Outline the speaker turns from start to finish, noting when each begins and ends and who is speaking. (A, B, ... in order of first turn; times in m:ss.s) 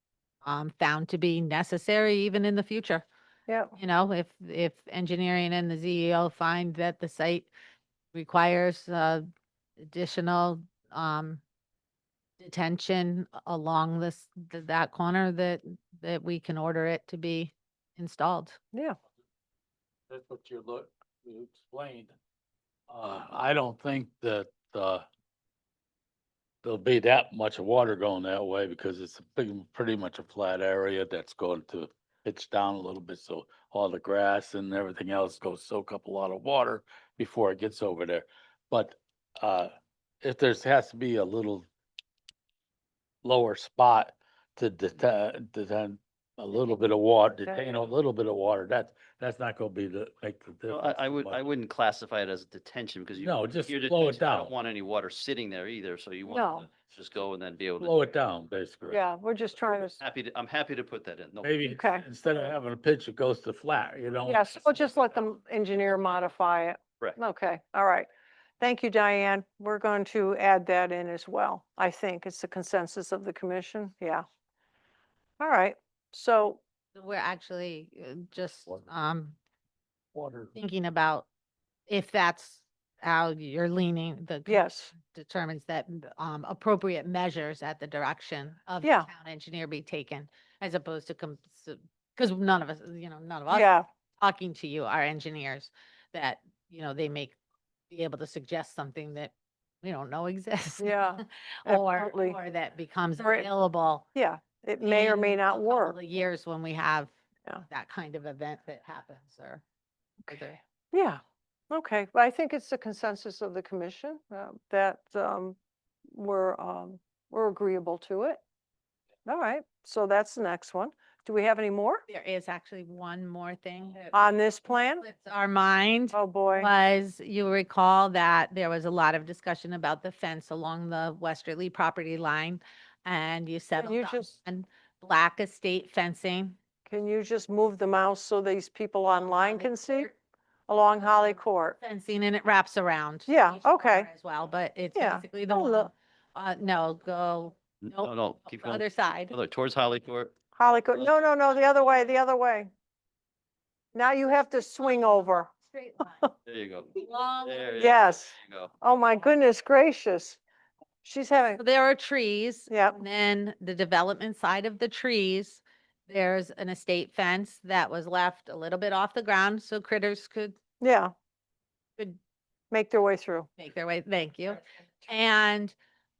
0:00.4-0:03.0 A
0:03.5-0:03.7 B
0:03.8-0:07.5 A
0:08.1-0:09.2 A
0:09.8-0:11.4 A
0:12.4-0:18.6 A
0:20.1-0:22.1 C
0:22.9-0:25.0 C
0:26.6-0:41.6 C
0:43.2-0:51.4 C
0:47.3-0:47.7 B
0:50.7-0:58.1 D
0:53.2-0:54.5 C
0:56.3-0:56.7 B
0:57.8-0:59.0 C
0:58.9-1:00.0 B
1:00.0-1:01.5 D
1:01.4-1:04.7 C
1:01.7-1:02.0 B
1:04.2-1:08.1 B
1:08.6-1:14.2 B
1:15.4-1:16.6 B
1:16.9-1:19.4 A
1:20.1-1:20.5 C
1:20.6-1:21.3 A
1:21.9-1:37.4 A
1:24.5-1:24.9 B
1:28.8-1:29.1 B
1:33.5-1:33.8 B
1:37.9-1:44.0 A
1:40.8-1:42.4 B
1:43.2-1:43.5 B
1:44.1-1:46.0 B
1:44.8-1:47.1 A
1:47.7-1:49.6 A
1:50.3-1:55.6 B
1:50.3-1:50.6 A
1:56.1-1:58.4 B
1:59.2-2:02.0 B
2:02.1-2:04.2 A
2:04.1-2:05.0 B
2:05.0-2:16.6 A
2:06.1-2:06.7 B
2:13.8-2:14.3 B
2:16.9-2:20.1 B
2:19.1-2:20.1 A
2:20.7-2:21.8 B
2:21.0-2:29.3 A
2:23.3-2:24.1 B
2:24.9-2:25.9 B
2:27.8-2:30.3 D
2:30.6-2:32.7 B
2:33.9-2:35.5 B
2:34.5-2:36.3 A
2:36.4-2:38.7 D
2:37.0-2:37.9 A
2:37.8-2:40.4 B
2:41.0-2:41.6 B
2:41.6-2:50.6 A
2:42.7-2:43.0 B
2:50.8-2:51.1 B
2:52.7-2:53.5 B
2:53.6-2:55.7 A